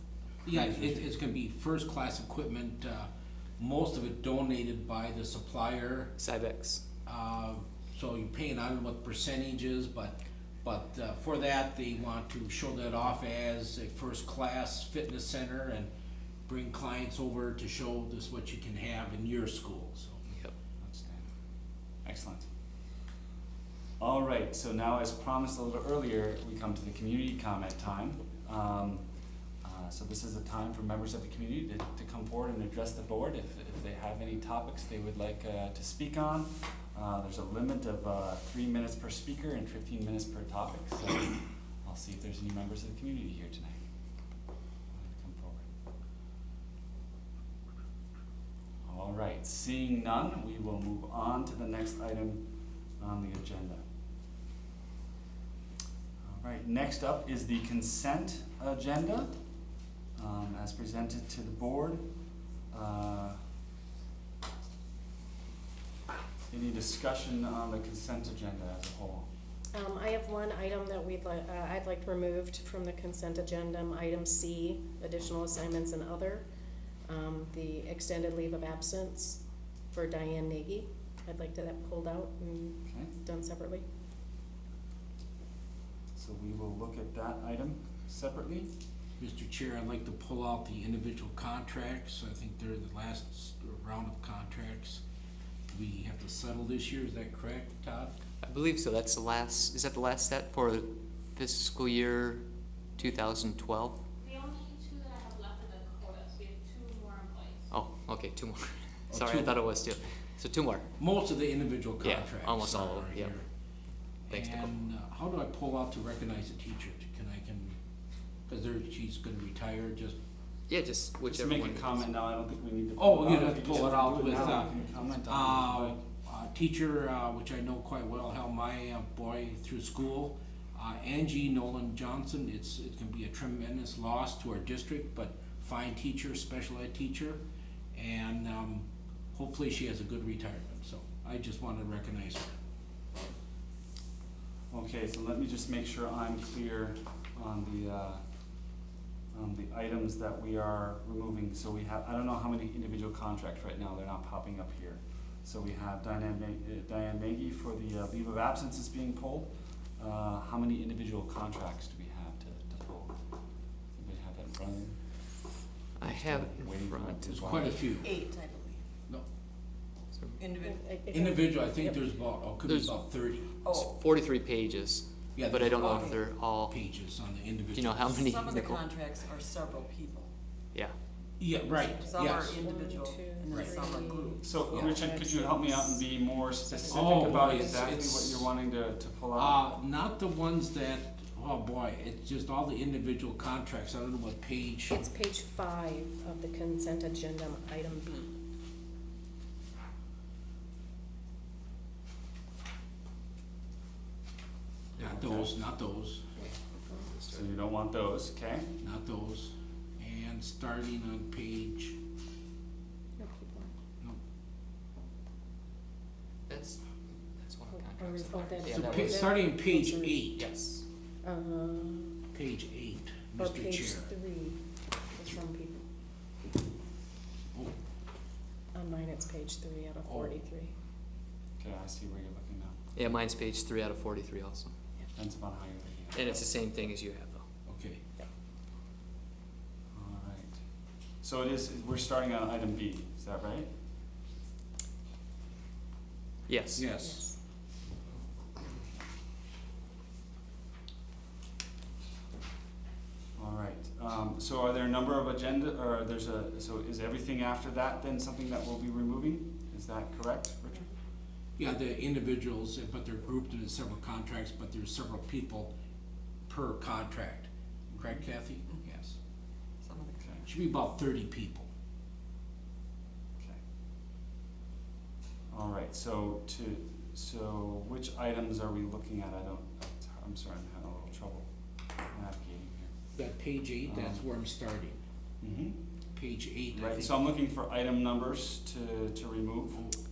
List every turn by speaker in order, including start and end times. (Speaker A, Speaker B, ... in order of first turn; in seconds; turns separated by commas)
Speaker A: 0.4-6.2, Speaker B: 6.2-6.8, Speaker A: 7.0-15.9, Speaker A: 16.4-20.2, Speaker B: 20.3-20.5, Speaker C: 20.8-21.2, Speaker C: 22.0-22.5, Speaker C: 24.0-29.0, Speaker C: 29.6-43.8, Speaker C: 44.9-45.6, Speaker C: 48.9-52.5, Speaker C: 53.0-53.8, Speaker C: 56.2-59.3, Speaker C: 60.2-62.0, Speaker C: 62.7-63.4, Speaker C: 66.5-69.2, Speaker D: 69.7-76.5, Speaker D: 77.0-79.4, Speaker D: 79.9-83.8, Speaker C: 82.9-83.1, Speaker C: 86.1-88.7, Speaker A: 89.2-95.0, Speaker A: 95.7-98.1, Speaker B: 98.4-102.4, Speaker B: 103.0-104.0, Speaker E: 104.2-107.7, Speaker B: 107.7-110.9, Speaker A: 109.1-109.7, Speaker A: 111.0-113.4, Speaker B: 112.0-113.3, Speaker B: 114.3-114.7, Speaker A: 114.3-117.8, Speaker A: 118.5-120.2, Speaker B: 120.7-122.1, Speaker C: 121.3-126.0, Speaker A: 123.0-137.4, Speaker D: 124.1-124.6, Speaker A: 137.9-142.5, Speaker C: 144.7-148.2, Speaker C: 149.3-163.1, Speaker C: 163.9-164.9, Speaker B: 166.0-167.4, Speaker C: 166.0-167.9, Speaker A: 167.2-168.1, Speaker F: 167.5-168.8, Speaker B: 170.1-170.4, Speaker F: 170.4-170.8, Speaker D: 170.6-172.0, Speaker A: 171.1-173.5, Speaker B: 172.6-172.9, Speaker F: 173.6-174.1, Speaker B: 173.7-176.7, Speaker A: 175.3-176.1, Speaker F: 175.6-176.2, Speaker A: 176.7-178.2, Speaker B: 177.7-178.8, Speaker F: 178.2-180.3, Speaker A: 181.4-182.6, Speaker F: 182.0-185.0, Speaker D: 182.2-187.7, Speaker A: 183.5-183.8, Speaker C: 184.4-189.8, Speaker A: 186.9-188.5, Speaker A: 189.3-195.0, Speaker D: 194.9-198.3, Speaker B: 205.0-205.5, Speaker A: 205.0-206.2, Speaker D: 206.4-207.1, Speaker B: 206.4-207.5, Speaker C: 207.3-208.7, Speaker A: 208.8-211.9, Speaker D: 213.2-213.7, Speaker B: 216.5-219.4, Speaker D: 217.7-220.3, Speaker A: 218.8-220.4, Speaker B: 220.3-220.8, Speaker D: 221.2-222.1, Speaker A: 222.3-224.1, Speaker D: 223.4-224.6, Speaker D: 225.1-225.8, Speaker D: 228.7-230.7, Speaker A: 230.0-230.4, Speaker C: 231.6-232.8, Speaker B: 232.9-234.7, Speaker C: 235.1-236.5, Speaker B: 236.1-237.4, Speaker A: 237.7-238.0, Speaker C: 239.9-240.6, Speaker C: 241.2-243.7, Speaker B: 246.5-246.8, Speaker A: 246.8-247.3, Speaker D: 247.0-247.3, Speaker C: 253.3-260.9, Speaker A: 261.6-265.7, Speaker A: 266.5-269.1, Speaker C: 267.9-268.2, Speaker F: 269.8-270.4, Speaker A: 270.4-271.7, Speaker C: 275.5-281.5, Speaker C: 282.1-282.9, Speaker A: 283.1-285.0, Speaker C: 283.8-284.3, Speaker C: 285.4-285.8, Speaker A: 286.1-287.1, Speaker C: 286.7-289.8